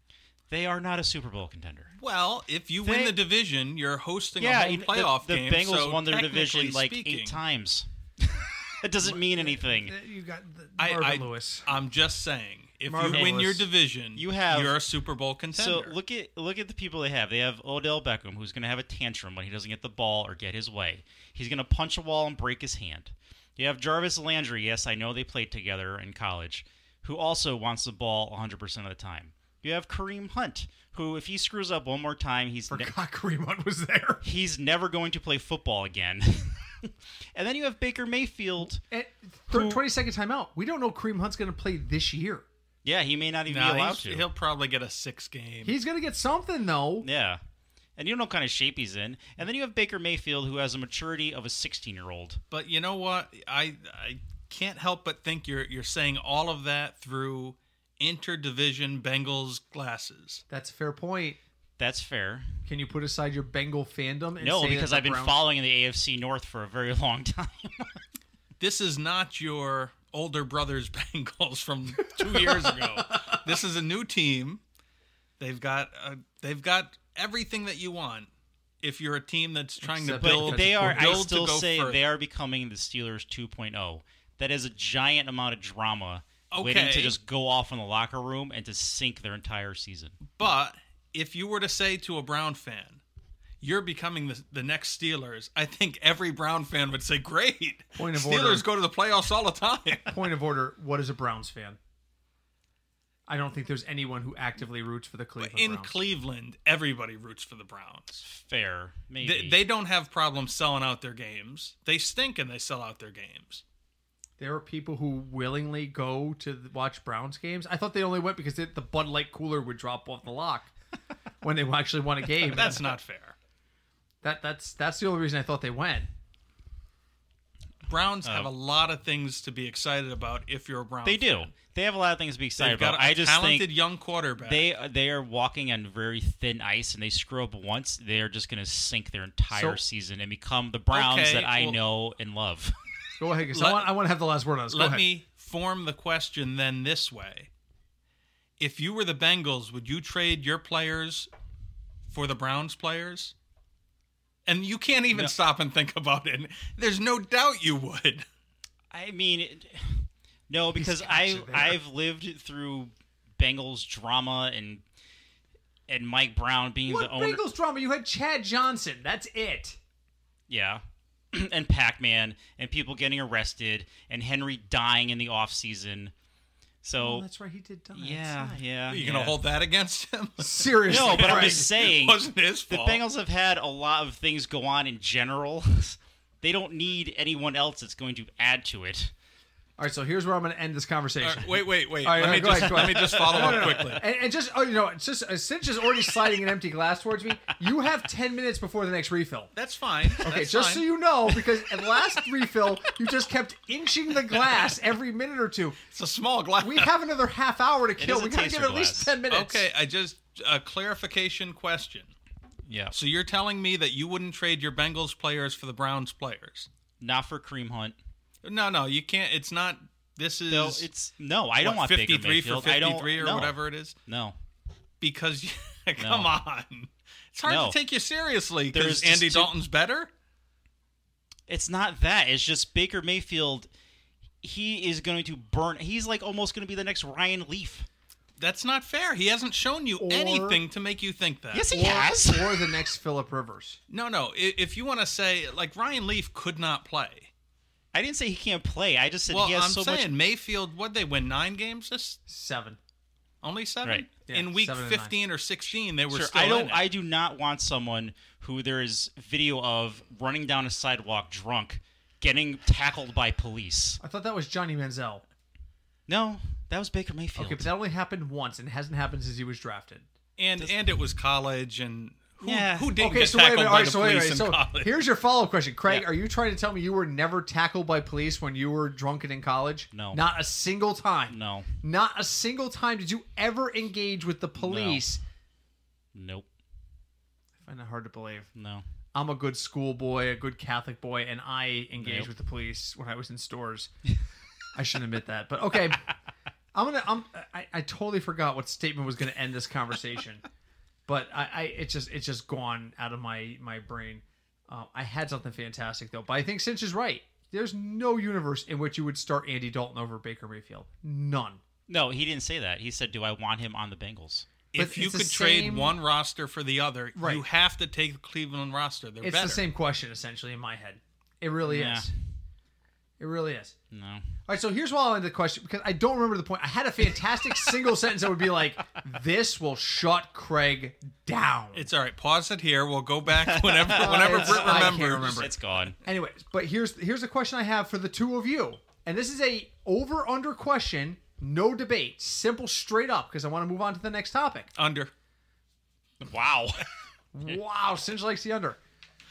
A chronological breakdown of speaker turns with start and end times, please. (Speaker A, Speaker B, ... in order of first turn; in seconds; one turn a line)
Speaker A: 0.5-1.9
Speaker B: 2.0-7.4
Speaker A: 2.8-3.2
Speaker A: 4.4-9.9
Speaker C: 9.0-11.7
Speaker B: 10.8-15.9
Speaker C: 12.9-13.7
Speaker A: 14.2-14.8
Speaker A: 15.5-32.9
Speaker C: 32.7-34.2
Speaker A: 34.2-38.8
Speaker C: 38.8-42.4
Speaker A: 39.5-39.8
Speaker A: 42.8-44.2
Speaker B: 43.5-45.8
Speaker C: 45.6-47.0
Speaker A: 47.0-47.4
Speaker A: 48.0-52.4
Speaker B: 52.5-60.4
Speaker C: 60.5-61.4
Speaker A: 61.8-62.6
Speaker C: 62.6-65.4
Speaker A: 64.4-68.0
Speaker B: 68.6-74.6
Speaker C: 72.2-73.4
Speaker B: 75.4-78.3
Speaker B: 78.8-82.0
Speaker C: 79.8-81.3
Speaker A: 80.2-90.2
Speaker B: 86.5-87.2
Speaker B: 90.3-93.0
Speaker B: 93.6-100.2
Speaker C: 98.0-98.7
Speaker C: 100.0-101.8
Speaker C: 103.3-105.9
Speaker B: 105.4-108.2
Speaker A: 108.2-109.6
Speaker B: 109.2-113.6
Speaker C: 114.4-120.7
Speaker C: 121.4-122.8
Speaker B: 122.4-123.3
Speaker C: 124.2-126.1
Speaker B: 127.9-131.5
Speaker A: 128.2-128.5
Speaker A: 131.0-133.7
Speaker B: 132.6-134.6
Speaker A: 134.4-142.7
Speaker C: 139.5-139.8
Speaker B: 140.9-141.8
Speaker C: 143.2-145.1
Speaker B: 143.5-143.9
Speaker B: 144.7-147.5
Speaker B: 148.6-151.3
Speaker B: 152.1-153.3
Speaker B: 154.4-158.2
Speaker A: 158.9-164.8
Speaker C: 160.8-161.8
Speaker A: 165.9-167.4
Speaker C: 166.9-169.8
Speaker A: 170.5-170.8
Speaker A: 171.3-176.1
Speaker A: 176.8-177.2
Speaker C: 177.0-178.6
Speaker A: 177.9-179.4
Speaker B: 178.9-183.0
Speaker C: 180.4-181.7
Speaker A: 180.9-189.1
Speaker C: 189.8-199.5
Speaker B: 191.2-194.0
Speaker A: 192.6-193.9
Speaker B: 199.5-200.8
Speaker C: 200.2-205.8
Speaker B: 205.9-206.9
Speaker C: 206.6-209.7
Speaker A: 208.0-209.2
Speaker B: 209.3-212.1
Speaker A: 212.7-212.9
Speaker B: 212.9-216.7
Speaker A: 217.0-217.9
Speaker B: 218.4-220.8
Speaker A: 220.5-224.3
Speaker B: 221.6-223.9
Speaker B: 225.0-230.1
Speaker A: 226.0-226.3
Speaker A: 227.4-227.8
Speaker A: 228.7-229.5
Speaker A: 231.5-233.7
Speaker A: 234.4-237.9
Speaker B: 238.4-241.7
Speaker C: 240.0-240.6
Speaker A: 241.5-242.6
Speaker C: 241.7-243.8
Speaker B: 243.9-247.3
Speaker A: 247.9-250.1
Speaker B: 249.3-252.2
Speaker C: 252.3-252.8
Speaker B: 253.4-256.8
Speaker C: 254.2-255.2
Speaker A: 256.1-264.0
Speaker C: 264.0-265.2
Speaker A: 266.1-267.7
Speaker C: 267.4-270.1
Speaker B: 270.4-275.0
Speaker A: 272.4-272.9
Speaker C: 273.0-285.2
Speaker A: 279.9-280.2
Speaker A: 281.3-281.7
Speaker A: 284.6-285.0
Speaker A: 286.1-286.5
Speaker C: 287.6-288.5
Speaker A: 288.5-288.8
Speaker C: 289.1-293.9
Speaker A: 292.0-292.3
Speaker C: 294.7-296.1
Speaker C: 296.7-300.4
Speaker C: 301.1-311.6
Speaker A: 311.9-314.5
Speaker B: 314.7-319.6
Speaker C: 314.8-316.0
Speaker C: 317.1-317.4
Speaker C: 319.2-322.1
Speaker A: 321.6-322.1
Speaker C: 323.2-323.7
Speaker A: 323.9-324.2
Speaker C: 324.5-331.9
Speaker B: 331.7-335.4
Speaker A: 333.4-336.0
Speaker C: 333.9-344.7
Speaker B: 344.8-345.1
Speaker A: 346.2-346.8
Speaker C: 347.3-348.8